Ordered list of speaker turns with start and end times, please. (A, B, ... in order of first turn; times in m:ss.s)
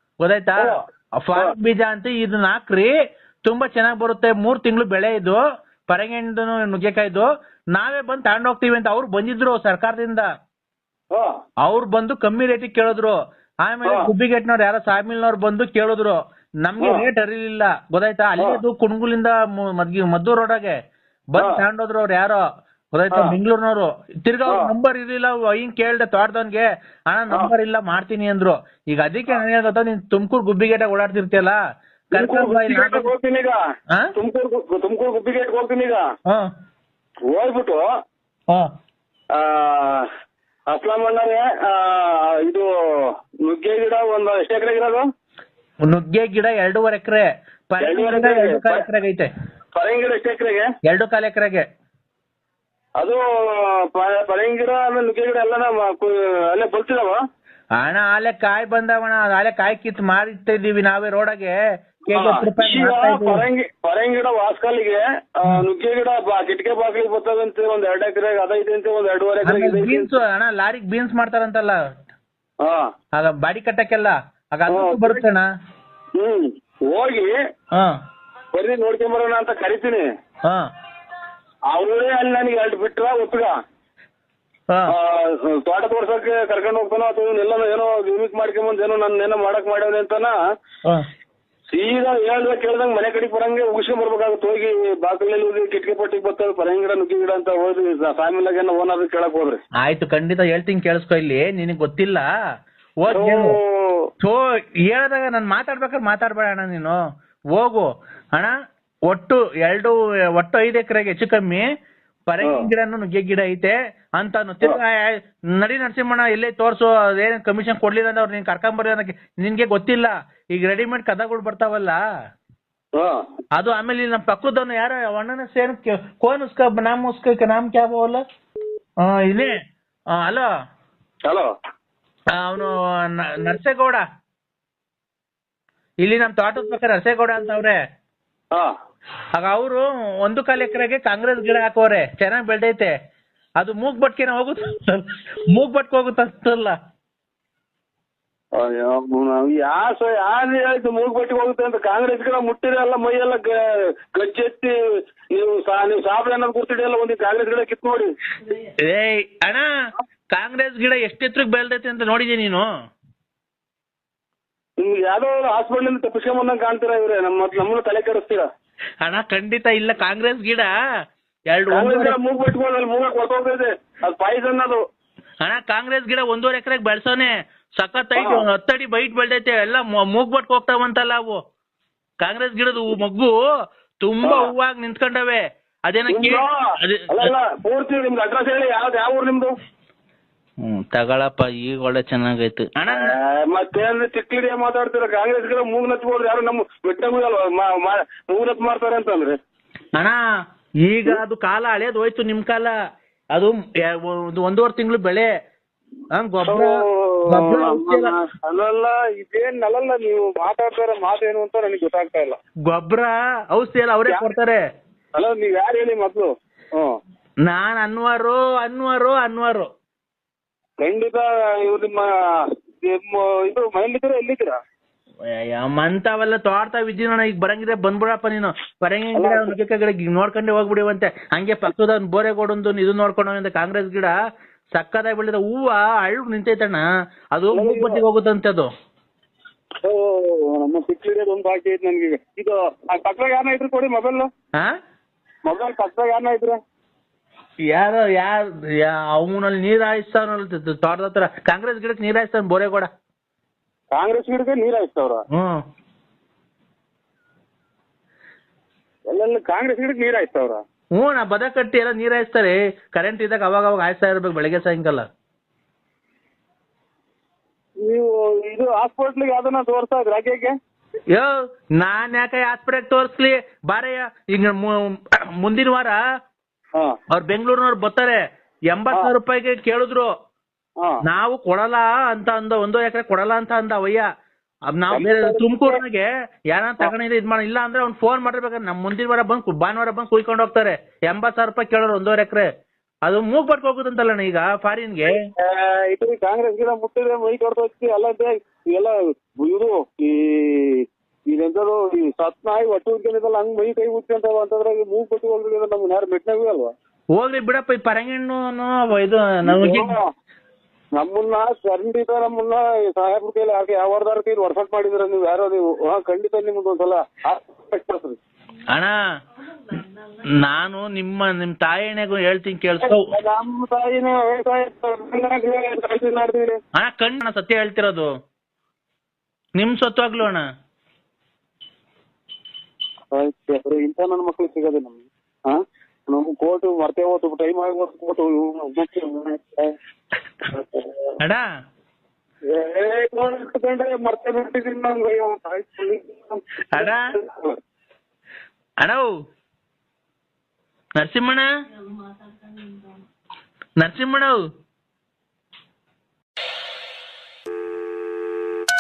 0:00.2-0:02.9 A
0:03.4-0:10.3 A
0:11.6-0:20.8 A
0:13.8-0:14.1 B
0:21.4-0:31.6 A
0:21.4-0:21.6 B
0:32.1-0:33.6 B
0:32.1-0:33.1 A
0:34.2-0:36.0 B
0:37.3-0:37.8 B
0:39.4-0:40.1 B
0:40.7-0:42.7 B
0:43.5-0:45.0 B
0:45.9-0:49.3 A
0:47.8-0:48.8 B
0:49.8-0:50.7 B
0:50.9-0:51.7 A
0:53.0-0:57.2 B
0:57.8-1:01.6 A
1:02.1-1:03.4 A
1:02.1-1:10.1 B
1:09.5-1:11.8 A
1:13.2-1:15.5 A
1:14.7-1:15.2 B
1:16.2-1:17.4 B
1:18.6-1:20.0 B
1:21.7-1:23.5 B
1:24.9-1:30.3 B
1:31.7-1:39.6 B
1:39.8-1:42.3 A
1:43.0-1:43.6 A
1:43.1-1:44.1 B
1:44.2-1:47.0 A
1:47.6-1:48.6 A
1:49.1-1:51.7 A
1:52.3-2:02.0 A
2:03.0-2:03.2 B
2:03.6-2:08.2 A
2:09.0-2:09.6 A
2:10.2-2:10.5 A
2:12.4-2:14.0 A
2:16.0-2:17.8 A
2:19.4-2:22.9 A
2:23.6-2:26.8 A
2:28.6-2:33.6 B
2:34.1-2:34.7 B
2:35.3-2:38.1 B
2:38.8-2:39.7 A
2:40.3-2:42.7 A
2:44.8-2:48.5 B
2:49.0-2:50.7 A
2:51.5-2:52.1 A
2:51.7-2:54.8 B
2:55.4-3:01.4 A
2:58.2-2:58.4 B
3:02.2-3:03.4 A
3:04.0-3:07.3 A
3:04.2-3:04.5 B
3:06.1-3:09.5 B
3:10.6-3:13.1 A
3:13.0-3:19.4 B
3:20.9-3:22.7 A
3:23.4-3:25.3 A
3:26.1-3:26.8 A
3:26.5-3:32.4 B
3:27.3-3:28.1 A
3:32.7-3:34.6 A
3:35.2-3:37.0 B
3:37.4-3:39.7 A
3:40.8-3:42.1 B
3:42.8-3:44.6 B
3:45.3-3:54.1 A
3:49.1-3:49.6 B
3:54.8-3:58.7 A
3:57.5-3:58.0 B
3:59.8-4:04.3 B
4:05.4-4:06.6 B
4:07.7-4:12.9 A
4:13.9-4:15.2 B
4:15.3-4:15.6 A
4:19.1-4:20.6 B
4:21.0-4:25.1 A
4:27.8-4:30.6 B
4:31.1-4:36.0 A
4:37.1-4:38.2 A
4:38.7-4:40.1 A
4:41.0-4:44.1 A
4:44.7-4:52.5 A
4:44.9-4:45.8 B
4:53.1-4:55.3 A
4:55.1-5:06.7 B
5:07.2-5:09.9 A
5:09.4-5:10.1 B
5:11.0-5:18.2 B
5:18.7-5:19.0 A
5:20.2-5:23.1 A
5:22.8-5:26.6 B
5:26.8-5:28.1 A
5:29.6-5:30.4 A
5:33.1-5:39.7 B
5:40.5-5:40.9 B
5:42.5-5:47.6 B
5:46.7-5:47.1 A
5:48.8-5:49.1 A
5:51.0-5:51.5 A
5:53.8-5:54.4 A